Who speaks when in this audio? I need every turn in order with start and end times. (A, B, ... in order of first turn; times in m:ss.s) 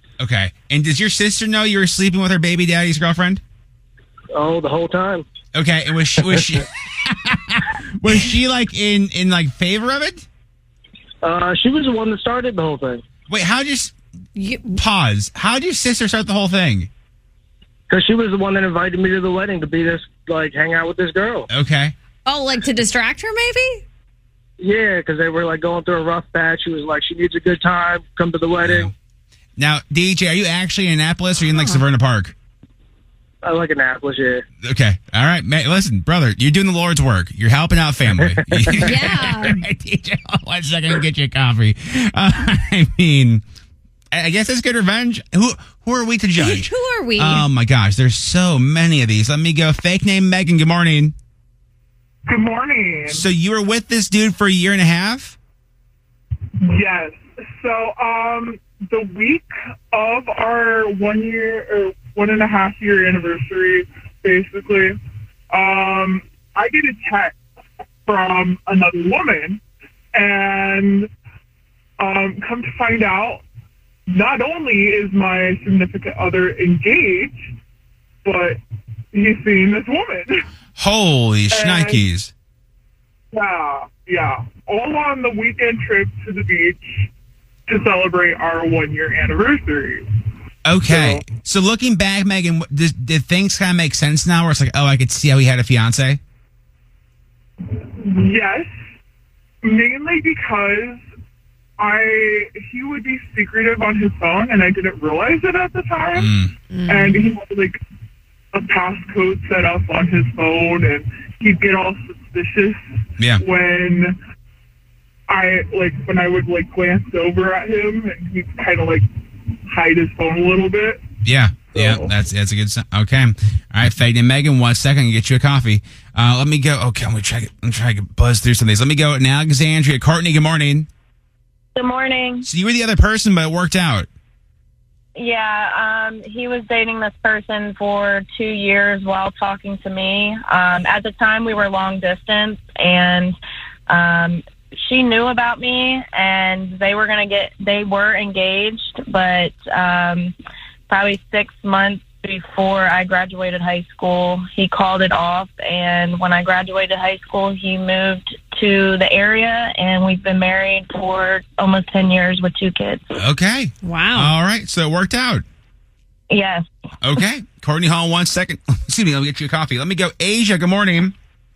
0:00.2-0:03.4 A
0:04.3-0:05.2 B
0:05.5-0:10.2 A
0:11.2-0:13.0 B
0:13.3-0:13.9 A
0:14.4-0:14.8 C
0:14.7-0:16.9 A
0:17.9-0:21.5 B
0:21.5-0:21.9 A
0:22.2-0:23.8 C
0:24.6-0:28.9 B
0:28.6-0:28.9 A
0:29.6-0:32.3 A
0:31.6-0:31.8 C
0:33.4-0:34.4 B
0:34.6-0:43.4 A
0:38.7-0:39.6 C
0:44.1-0:51.1 A
0:46.4-0:47.5 C
0:52.3-0:53.3 D
0:53.1-0:55.4 A
0:56.6-1:05.0 D
1:05.5-1:07.4 D
1:08.0-1:09.6 D
1:10.1-1:11.1 D
1:12.0-1:13.4 D
1:14.1-1:17.5 D
1:18.2-1:18.6 D
1:19.1-1:20.3 D
1:20.8-1:22.3 A
1:21.5-1:22.0 D
1:23.3-1:27.1 D
1:27.7-1:30.0 D
1:30.6-1:36.2 A
1:30.9-1:31.2 D
1:38.0-1:38.7 D
1:39.6-1:41.0 D
1:41.8-1:46.3 D
1:46.1-1:46.5 A
1:46.7-1:47.2 C
1:46.9-1:47.8 D
1:48.5-1:52.8 D
1:53.4-1:54.2 D
1:55.3-1:59.0 D
1:59.7-2:01.0 D
2:01.2-2:10.9 A
2:11.8-2:12.4 E
2:12.4-2:14.1 A
2:15.2-2:23.4 E
2:23.9-2:30.3 E
2:30.9-2:43.1 E
2:43.2-2:45.4 A
2:43.8-2:44.3 C
2:46.3-2:46.6 E
2:47.0-2:51.1 A